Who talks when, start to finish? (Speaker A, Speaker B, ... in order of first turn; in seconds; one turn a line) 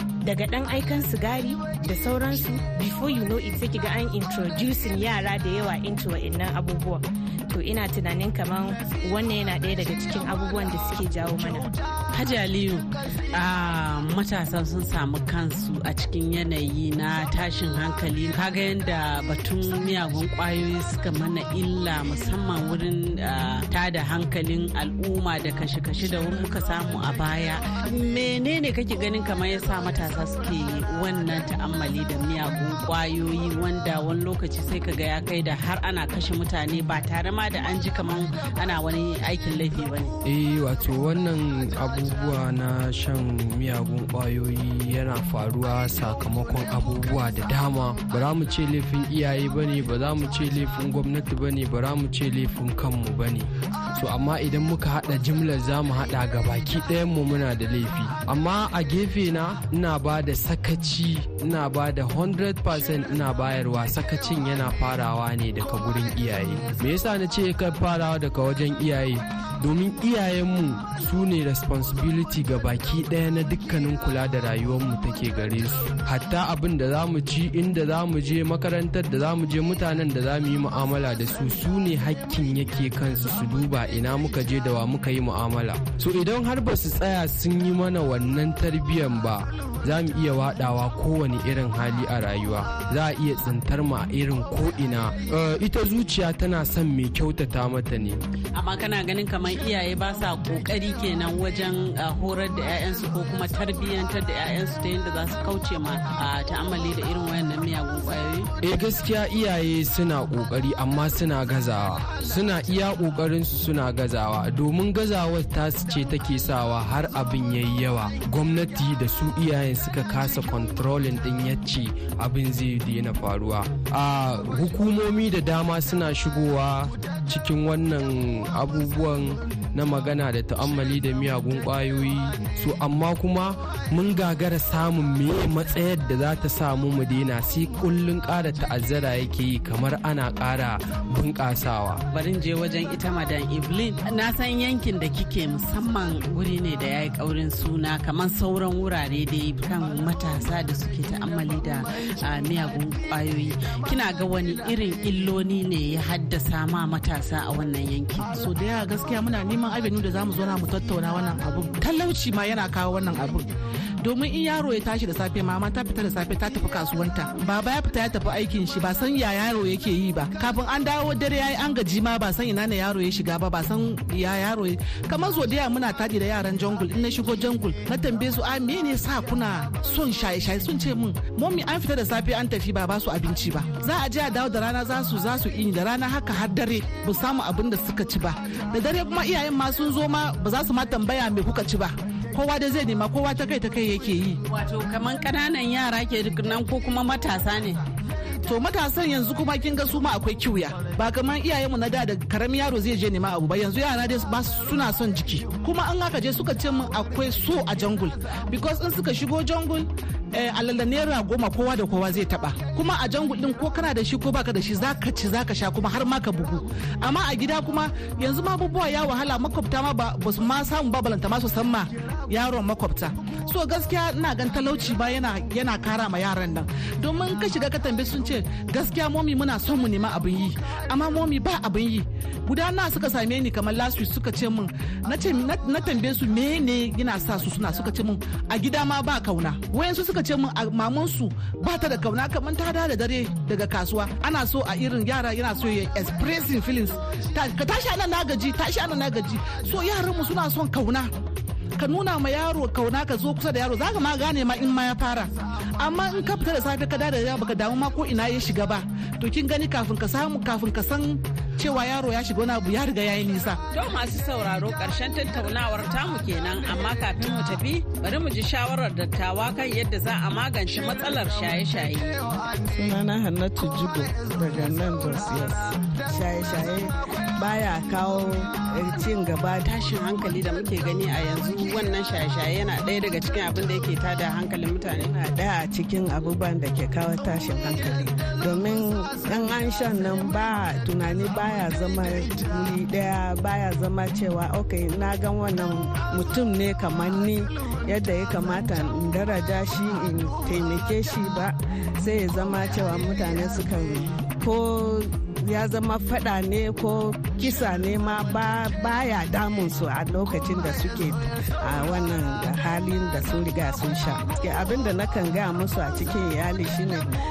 Speaker A: 0.2-11.7
Speaker B: 12.1-40.1
Speaker C: 40.2-98.2
Speaker B: 98.5-108.5
Speaker C: 108.6-142.0
Speaker B: 142.1-158.2
Speaker D: 158.3-163.5
Speaker D: 164.0-194.4
Speaker B: 194.5-197.8
Speaker D: 198.4-251.1
Speaker D: 251.8-263.6
Speaker B: 263.7-272.2
Speaker E: 272.7-279.6
Speaker B: 279.6-285.1
Speaker E: 285.1-317.1